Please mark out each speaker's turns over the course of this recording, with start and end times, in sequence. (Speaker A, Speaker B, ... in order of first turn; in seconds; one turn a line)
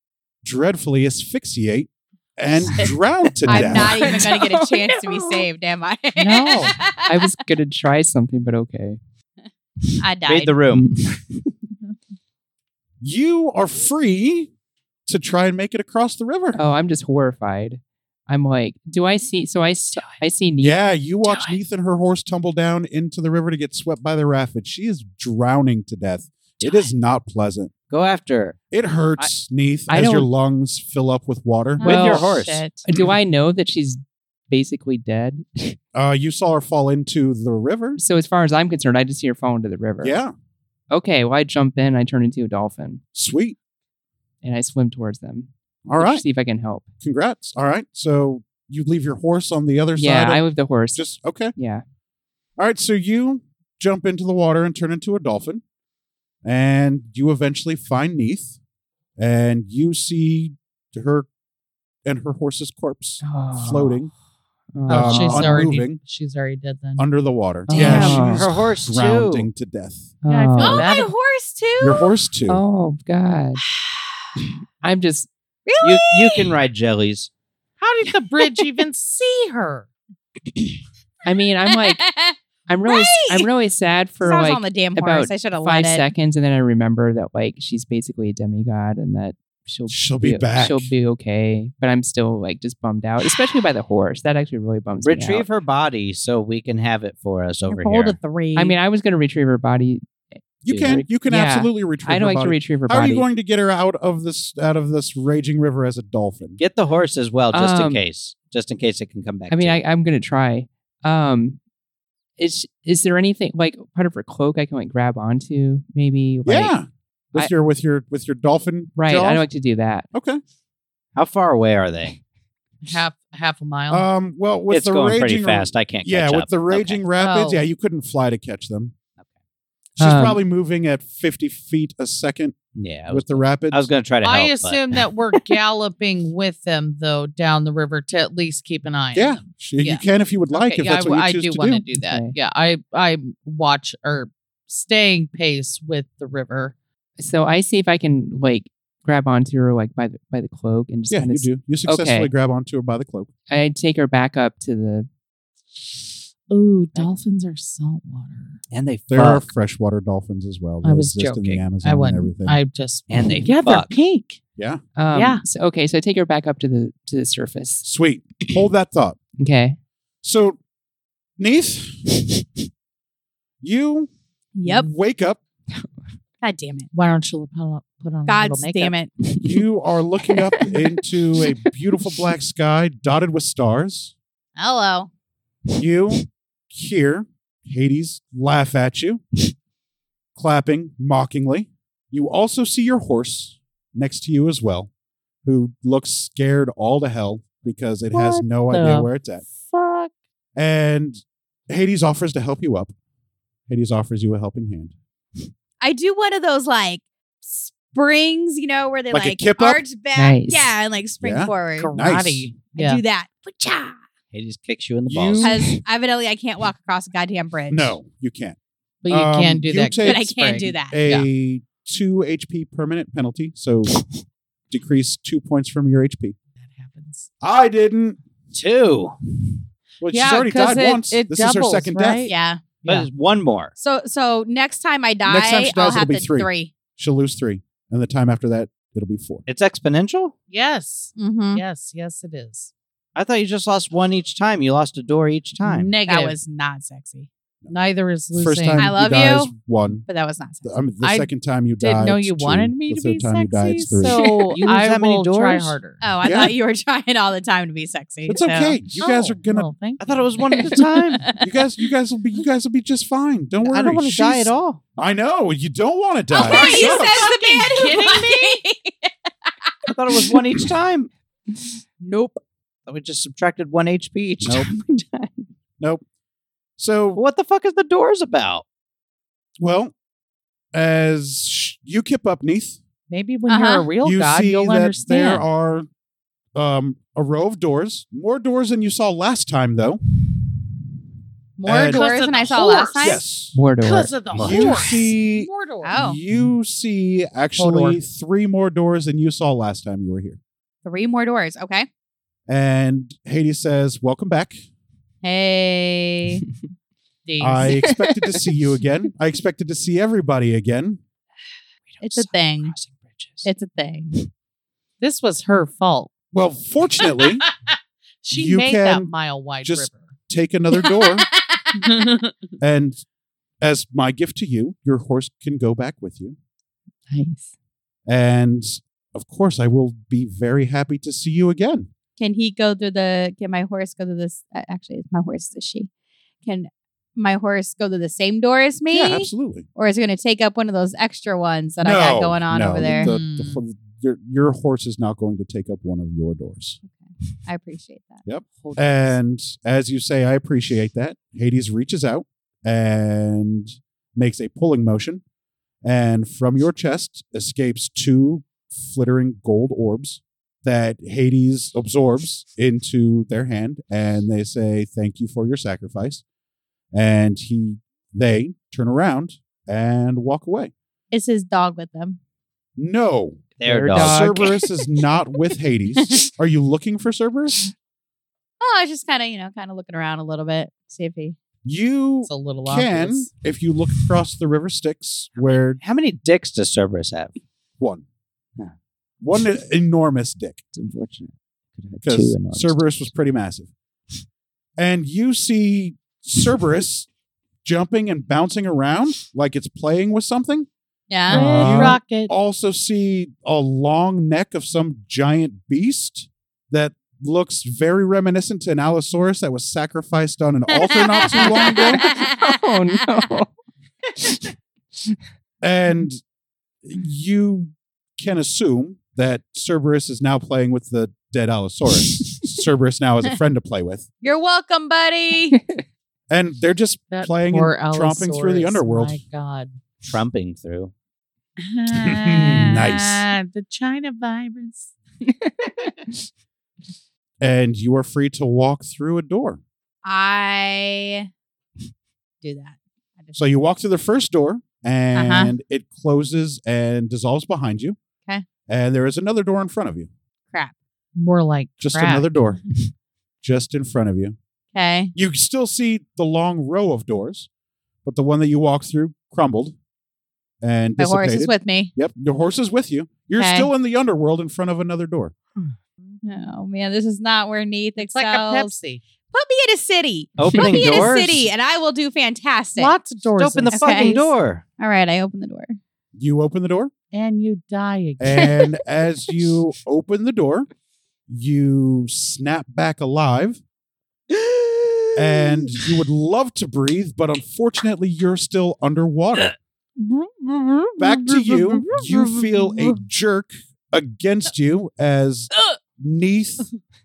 Speaker A: 0.4-4.1
Speaker B: 3.4-7.3
Speaker C: 3.5-5.5
Speaker D: 6.2-6.7
Speaker C: 7.0-9.0
Speaker B: 10.0-10.6
Speaker E: 10.2-10.9
Speaker C: 10.7-11.2
Speaker A: 13.0-14.5
Speaker A: 15.1-16.6
Speaker C: 16.5-20.8
Speaker A: 20.6-27.7
Speaker E: 27.9-28.6
Speaker A: 28.7-31.9
Speaker C: 29.9-30.3
Speaker B: 31.8-32.8
Speaker E: 31.8-32.6
Speaker C: 31.8-35.8
Speaker A: 35.9-38.0
Speaker C: 38.0-40.2
Speaker A: 40.0-40.3
Speaker C: 40.9-43.0
Speaker A: 43.1-43.5
Speaker C: 44.4-46.9
Speaker A: 45.9-46.2
Speaker A: 47.0-50.4
Speaker C: 50.0-51.8
Speaker A: 50.9-51.5
Speaker A: 52.6-55.6
Speaker A: 56.4-58.5
Speaker A: 59.2-61.3
Speaker A: 62.0-64.1
Speaker C: 63.2-64.0
Speaker C: 64.7-65.7
Speaker A: 64.9-66.0
Speaker D: 64.9-67.1
Speaker A: 67.0-70.1
Speaker C: 67.7-68.5
Speaker E: 67.8-69.5
Speaker B: 67.8-68.1
Speaker C: 70.2-70.9
Speaker D: 70.3-71.1
Speaker B: 70.6-72.1
Speaker A: 71.8-72.6
Speaker C: 72.5-73.6
Speaker B: 73.8-74.0
Speaker C: 74.8-75.3
Speaker B: 75.7-76.5
Speaker E: 75.8-77.3
Speaker D: 77.8-79.9
Speaker C: 81.2-82.0
Speaker B: 81.7-83.5
Speaker C: 82.7-95.5
Speaker B: 84.2-86.1
Speaker A: 89.9-90.9
Speaker E: 95.0-98.2
Speaker B: 97.7-98.7
Speaker C: 98.5-100.1
Speaker A: 100.6-106.6
Speaker E: 100.7-101.0
Speaker C: 100.7-103.3
Speaker E: 106.6-109.8
Speaker C: 107.5-108.0
Speaker C: 109.5-111.6
Speaker C: 112.4-116.7
Speaker A: 116.5-119.5
Speaker C: 119.0-120.1
Speaker A: 120.1-120.4
Speaker E: 121.2-122.2
Speaker D: 122.8-124.1
Speaker A: 123.9-128.9
Speaker E: 124.7-127.0
Speaker B: 127.2-127.6
Speaker A: 130.0-132.6
Speaker C: 130.0-130.4
Speaker E: 132.7-135.0
Speaker A: 133.1-133.9
Speaker D: 134.2-146.7
Speaker A: 139.1-141.8
Speaker C: 142.0-142.3
Speaker C: 147.2-152.3
Speaker A: 151.1-153.3
Speaker C: 153.5-155.1
Speaker D: 156.5-158.6
Speaker E: 158.7-159.5
Speaker A: 159.1-162.6
Speaker D: 160.8-164.4
Speaker E: 163.1-163.9
Speaker C: 165.0-167.8
Speaker D: 165.1-165.4
Speaker A: 167.8-169.2
Speaker C: 169.4-169.8
Speaker A: 170.2-170.6
Speaker A: 171.4-172.1
Speaker A: 173.6-174.1
Speaker B: 174.6-174.9
Speaker A: 174.6-175.4
Speaker B: 176.4-176.9
Speaker D: 176.9-178.9
Speaker B: 178.2-179.1
Speaker C: 179.3-179.5
Speaker A: 179.4-184.1
Speaker C: 180.5-180.9
Speaker B: 184.6-185.1
Speaker A: 185.8-189.2
Speaker A: 190.3-194.9
Speaker A: 195.4-199.4
Speaker D: 198.1-200.1
Speaker A: 200.6-202.9
Speaker A: 203.7-204.9
Speaker B: 205.8-211.9
Speaker A: 209.1-209.8
Speaker C: 210.2-210.7
Speaker A: 211.2-212.5
Speaker D: 211.8-213.0
Speaker B: 212.7-214.0
Speaker E: 214.3-215.6
Speaker A: 215.1-215.8
Speaker B: 215.4-217.9
Speaker A: 217.7-218.6
Speaker D: 219.0-221.2
Speaker A: 219.1-220.3
Speaker B: 220.0-221.0
Speaker A: 220.9-224.0
Speaker A: 224.7-226.3
Speaker D: 226.6-227.3
Speaker A: 227.4-228.2
Speaker E: 228.5-229.2
Speaker A: 230.0-232.3
Speaker D: 230.1-233.1
Speaker B: 232.2-232.7
Speaker E: 232.8-233.7
Speaker B: 233.8-236.7
Speaker A: 235.2-239.4
Speaker E: 239.5-240.3
Speaker D: 240.5-242.7
Speaker B: 241.2-241.6
Speaker E: 243.2-245.9
Speaker D: 245.6-246.3
Speaker B: 246.0-247.3
Speaker D: 247.7-248.9
Speaker A: 248.3-250.1
Speaker B: 248.8-249.5
Speaker B: 250.1-250.7
Speaker A: 250.6-254.3
Speaker D: 251.0-251.3
Speaker D: 251.8-256.0
Speaker B: 254.0-254.6
Speaker E: 254.6-255.8
Speaker B: 256.0-258.9
Speaker A: 256.2-256.5
Speaker A: 258.3-259.7
Speaker D: 259.0-260.2
Speaker E: 260.0-261.3
Speaker A: 261.4-267.3
Speaker E: 263.6-264.8
Speaker B: 266.3-269.1
Speaker D: 266.4-268.6
Speaker E: 269.9-271.1
Speaker B: 272.0-272.4
Speaker E: 272.9-275.5
Speaker A: 274.4-274.7
Speaker A: 276.8-277.2
Speaker E: 277.1-278.6
Speaker A: 279.6-279.9
Speaker A: 280.7-282.8
Speaker D: 283.1-285.4
Speaker B: 283.5-283.9
Speaker A: 284.0-285.9
Speaker A: 286.5-290.0
Speaker B: 291.6-293.2
Speaker A: 291.6-292.1
Speaker D: 291.8-293.2
Speaker A: 292.9-293.6
Speaker C: 293.5-294.1
Speaker D: 293.8-296.0
Speaker E: 294.3-294.9
Speaker A: 294.4-300.4
Speaker B: 295.8-296.2
Speaker D: 297.6-298.0
Speaker B: 300.8-301.9
Speaker A: 302.5-304.6
Speaker B: 305.2-306.4
Speaker D: 307.2-307.8
Speaker A: 307.4-311.0
Speaker C: 307.7-308.4
Speaker B: 312.0-312.7
Speaker B: 313.4-314.2
Speaker D: 315.0-316.1
Speaker A: 316.3-317.4
Speaker D: 317.0-320.1
Speaker A: 318.3-321.3
Speaker B: 320.8-321.9
Speaker D: 321.7-322.4
Speaker A: 322.6-323.0
Speaker A: 323.6-326.4
Speaker C: 327.1-327.5
Speaker A: 328.1-331.9
Speaker B: 332.2-335.9
Speaker B: 336.4-343.1
Speaker A: 338.9-339.6
Speaker A: 341.8-346.8
Speaker D: 342.8-343.6
Speaker B: 346.8-348.2
Speaker A: 348.2-355.2
Speaker D: 348.6-349.1
Speaker A: 355.8-366.2
Speaker A: 366.9-370.7
Speaker B: 371.1-372.2
Speaker A: 372.8-373.4
Speaker E: 373.6-374.4
Speaker C: 373.6-374.5
Speaker A: 373.9-377.7
Speaker B: 376.0-376.3
Speaker B: 378.6-381.3
Speaker A: 381.6-385.8
Speaker D: 382.2-383.3
Speaker E: 385.8-387.3
Speaker A: 387.8-388.0
Speaker A: 389.2-390.6
Speaker E: 390.7-393.0
Speaker A: 392.0-393.7
Speaker A: 394.8-397.1
Speaker A: 397.6-400.7
Speaker B: 401.1-401.9
Speaker D: 401.3-402.3
Speaker A: 401.3-412.1
Speaker B: 410.7-412.6
Speaker C: 411.6-413.5
Speaker C: 414.2-414.4
Speaker A: 415.6-416.2
Speaker A: 416.8-424.1
Speaker B: 424.2-425.6
Speaker A: 426.3-429.2
Speaker D: 427.1-429.8
Speaker E: 430.0-430.9
Speaker D: 431.6-434.9
Speaker A: 432.0-433.2
Speaker B: 432.4-432.7
Speaker C: 435.2-436.1
Speaker A: 437.4-439.6
Speaker B: 440.0-441.3
Speaker B: 442.4-443.4
Speaker A: 443.4-448.0
Speaker B: 445.1-445.5
Speaker A: 448.7-450.1
Speaker D: 451.1-452.3
Speaker A: 451.8-452.6
Speaker A: 453.4-454.4
Speaker B: 454.7-455.1
Speaker A: 455.1-457.5
Speaker A: 458.0-459.8
Speaker A: 460.6-465.3
Speaker B: 461.0-461.9
Speaker B: 463.4-463.7
Speaker B: 466.2-468.7
Speaker D: 468.0-469.0
Speaker B: 469.3-472.9
Speaker E: 470.4-471.5
Speaker D: 472.8-474.3
Speaker E: 473.4-474.6
Speaker B: 473.7-474.1
Speaker B: 474.8-475.8
Speaker A: 476.1-476.9
Speaker D: 477.1-478.7
Speaker A: 478.2-480.7
Speaker A: 481.3-483.6
Speaker E: 484.6-485.0
Speaker A: 485.1-489.5
Speaker B: 490.0-493.0
Speaker A: 491.0-496.7